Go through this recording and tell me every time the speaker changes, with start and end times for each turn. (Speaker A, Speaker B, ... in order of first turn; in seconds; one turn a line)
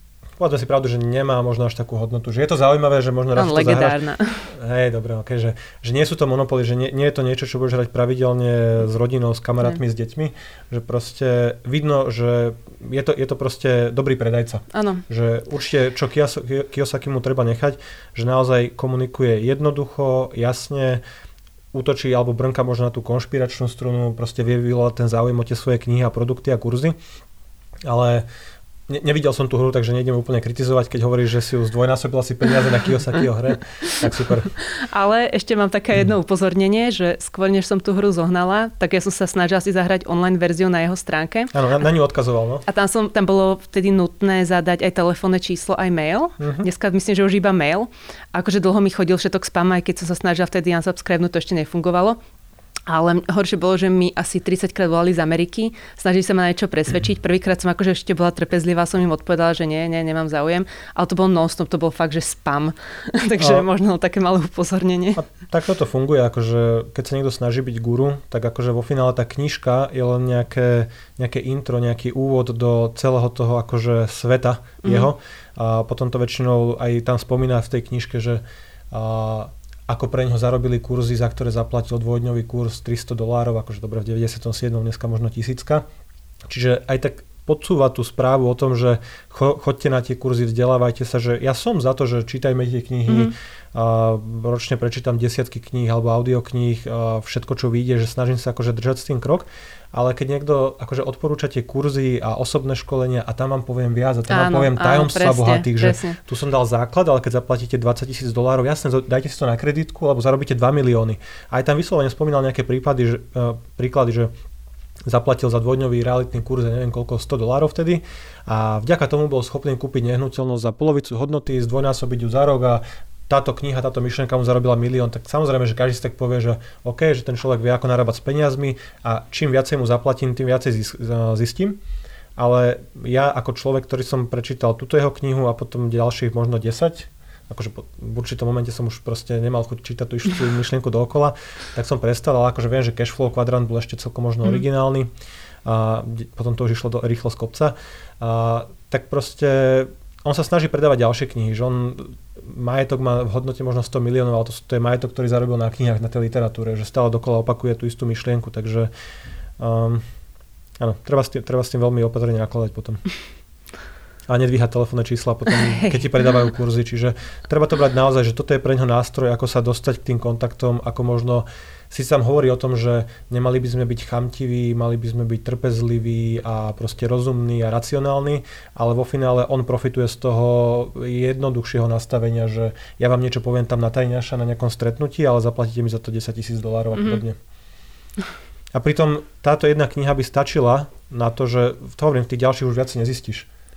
Speaker A: 0.4-21.0
Speaker B: 3.3-4.5
Speaker B: 14.7-15.0
Speaker A: 21.7-26.9
Speaker A: 27.8-28.2
Speaker A: 28.9-34.5
Speaker B: 34.6-41.5
Speaker A: 41.5-42.6
Speaker B: 42.6-52.2
Speaker A: 46.4-46.7
Speaker B: 52.9-65.2
Speaker A: 63.4-63.6
Speaker A: 65.2-85.8
Speaker B: 74.8-75.1
Speaker A: 86.5-114.3
Speaker B: 93.1-93.3
Speaker B: 104.3-106.2
Speaker A: 115.0-131.8
Speaker A: 132.3-145.1
Speaker A: 145.6-158.9
Speaker A: 159.6-160.0
Speaker A: 160.8-163.0
Speaker A: 164.3-187.4
Speaker A: 188.7-193.5